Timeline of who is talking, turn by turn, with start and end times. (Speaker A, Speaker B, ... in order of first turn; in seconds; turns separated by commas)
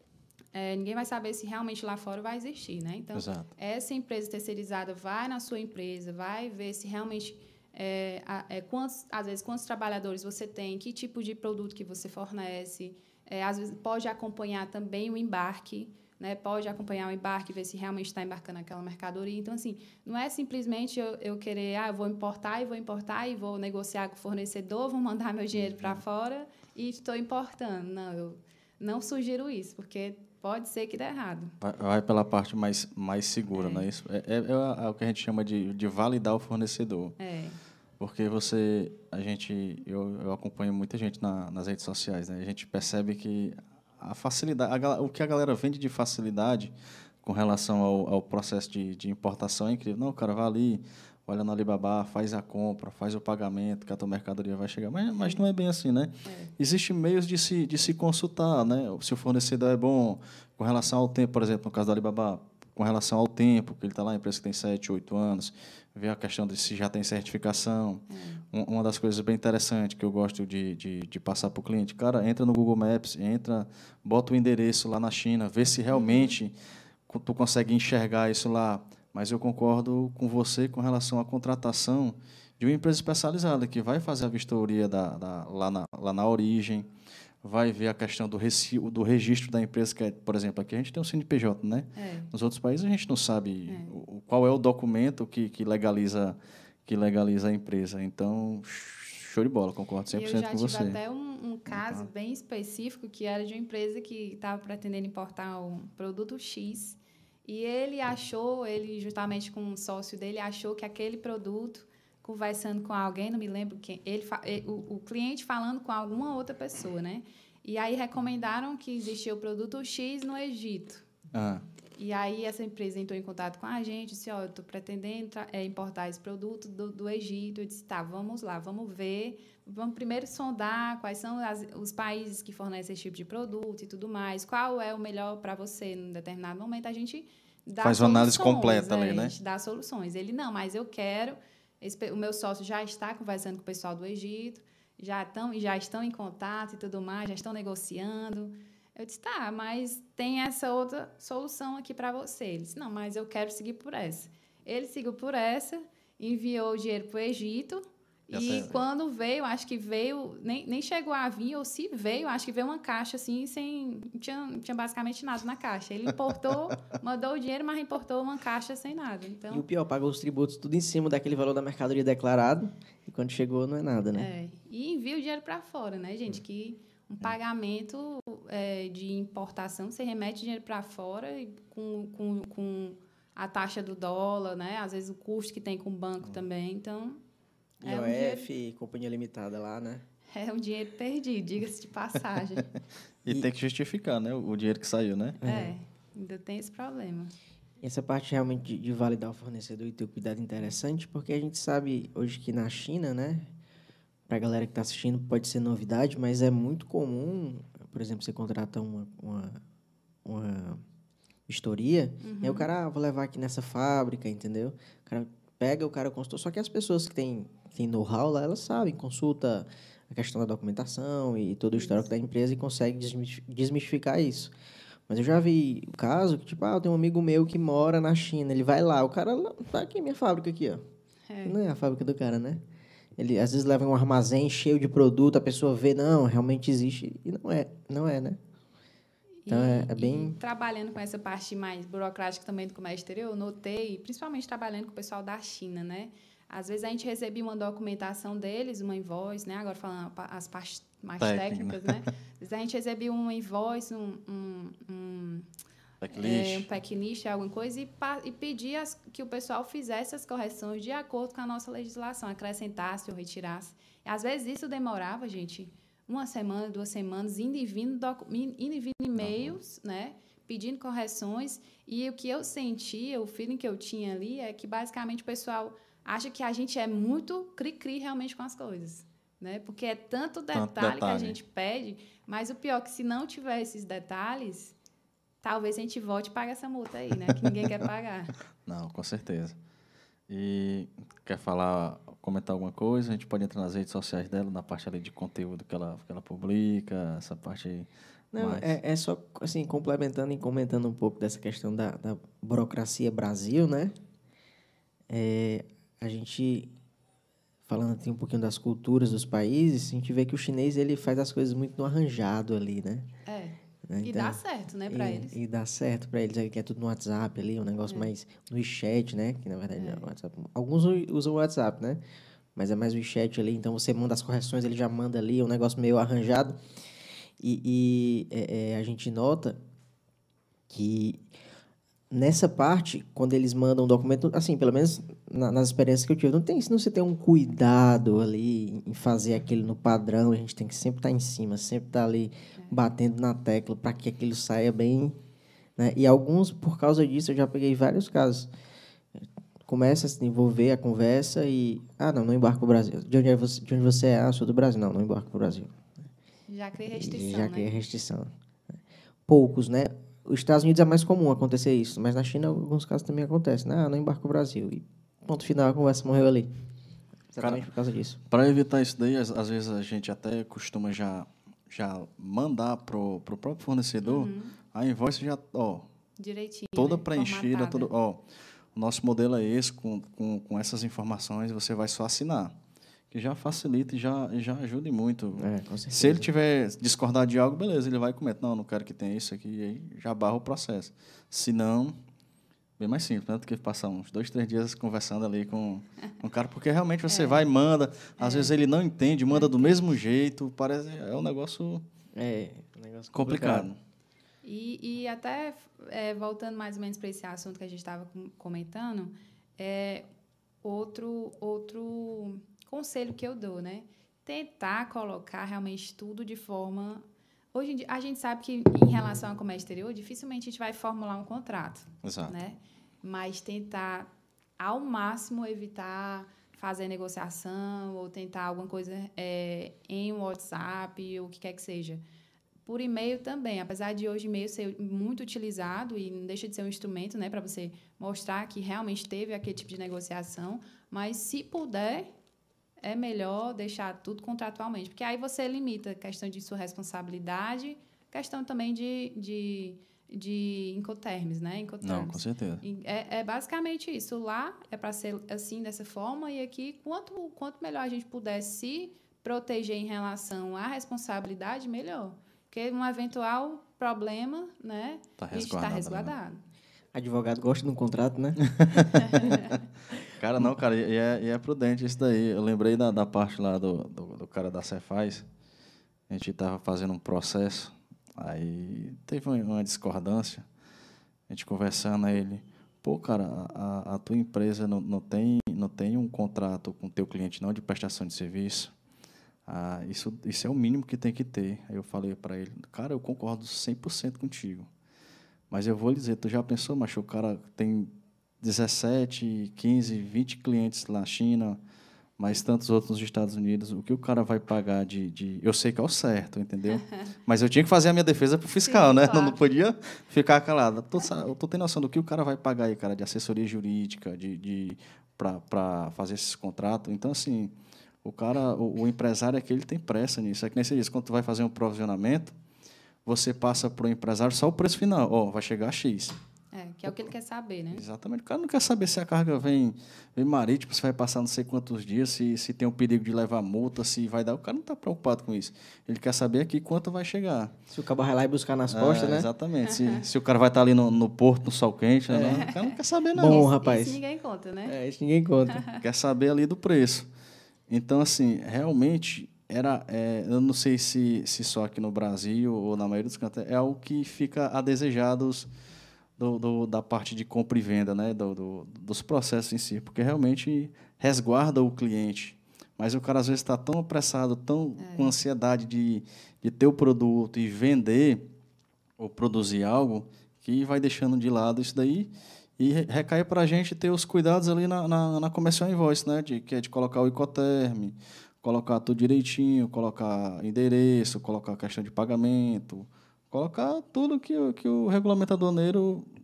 Speaker A: 0.5-31.5, Speaker B: 3.1-3.5, Speaker B: 25.5-26.0, Speaker B: 31.6-37.1, Speaker A: 33.5-33.8, Speaker A: 37.2-37.6, Speaker B: 38.0-86.9, Speaker A: 56.2-56.5, Speaker A: 68.1-68.4, Speaker A: 75.9-76.4, Speaker B: 87.4-101.0, Speaker A: 92.0-92.3, Speaker A: 93.7-93.9, Speaker A: 100.1-121.0, Speaker B: 101.7-102.1, Speaker B: 121.3-121.6, Speaker A: 122.0-169.6, Speaker B: 137.8-139.3, Speaker B: 158.3-158.8, Speaker C: 169.5-174.3, Speaker A: 174.1-187.2, Speaker C: 187.8-190.0, Speaker A: 187.8-188.5, Speaker A: 190.3-192.7, Speaker B: 193.2-195.4, Speaker C: 195.4-195.7, Speaker A: 195.4-197.3, Speaker C: 197.8-203.5, Speaker C: 204.3-209.6, Speaker C: 210.2-210.8, Speaker C: 211.5-224.5, Speaker A: 212.2-212.7, Speaker A: 221.8-222.0, Speaker C: 225.1-230.8, Speaker A: 231.3-231.6, Speaker C: 231.4-232.6, Speaker C: 233.2-238.4, Speaker A: 239.4-255.5, Speaker C: 239.5-240.4, Speaker B: 251.2-252.0, Speaker B: 256.0-256.7, Speaker A: 256.1-284.7, Speaker B: 269.2-269.6, Speaker B: 280.5-281.4, Speaker A: 285.4-288.3, Speaker B: 288.6-289.6, Speaker B: 290.3-298.8, Speaker C: 298.3-303.9, Speaker C: 305.1-306.7, Speaker C: 307.7-313.1, Speaker A: 313.3-315.4, Speaker C: 313.9-322.0, Speaker A: 317.9-318.1, Speaker A: 319.8-320.1, Speaker C: 322.6-326.6, Speaker C: 327.4-329.6, Speaker C: 330.7-331.2, Speaker C: 332.1-345.2, Speaker C: 345.8-348.5, Speaker C: 349.7-355.8, Speaker A: 356.5-357.7, Speaker C: 356.9-358.3, Speaker C: 359.3-366.5, Speaker C: 367.3-368.2, Speaker B: 367.4-367.6, Speaker B: 368.3-375.9, Speaker A: 374.0-374.5, Speaker A: 376.2-377.9, Speaker B: 376.8-378.2, Speaker B: 378.7-382.6, Speaker B: 383.1-391.9, Speaker C: 385.4-386.3, Speaker B: 392.8-401.8, Speaker A: 397.1-397.5, Speaker A: 398.2-398.6, Speaker A: 399.3-399.9, Speaker C: 402.1-403.7, Speaker B: 403.1-403.8, Speaker A: 404.4-410.1, Speaker A: 410.6-432.0, Speaker B: 422.0-422.4, Speaker A: 432.6-442.1, Speaker A: 442.8-466.4, Speaker B: 451.8-452.6, Speaker B: 465.2-466.1, Speaker C: 466.9-469.3, Speaker B: 468.6-468.9, Speaker A: 469.1-469.5, Speaker B: 470.2-475.3, Speaker B: 476.1-480.5, Speaker B: 481.3-488.7, Speaker B: 489.4-494.7, Speaker B: 495.5-501.6, Speaker B: 502.2-522.3, Speaker A: 508.6-509.4, Speaker B: 523.0-526.2, Speaker A: 526.5-527.8, Speaker B: 527.7-537.5, Speaker C: 537.7-539.3, Speaker B: 538.7-543.5, Speaker A: 539.6-540.0, Speaker C: 542.1-542.5, Speaker A: 542.3-544.8, Speaker C: 543.1-544.0, Speaker C: 544.7-545.6, Speaker A: 545.5-545.8, Speaker B: 545.8-547.1, Speaker B: 547.7-555.5, Speaker B: 556.2-568.3, Speaker A: 564.8-565.1, Speaker B: 569.0-586.1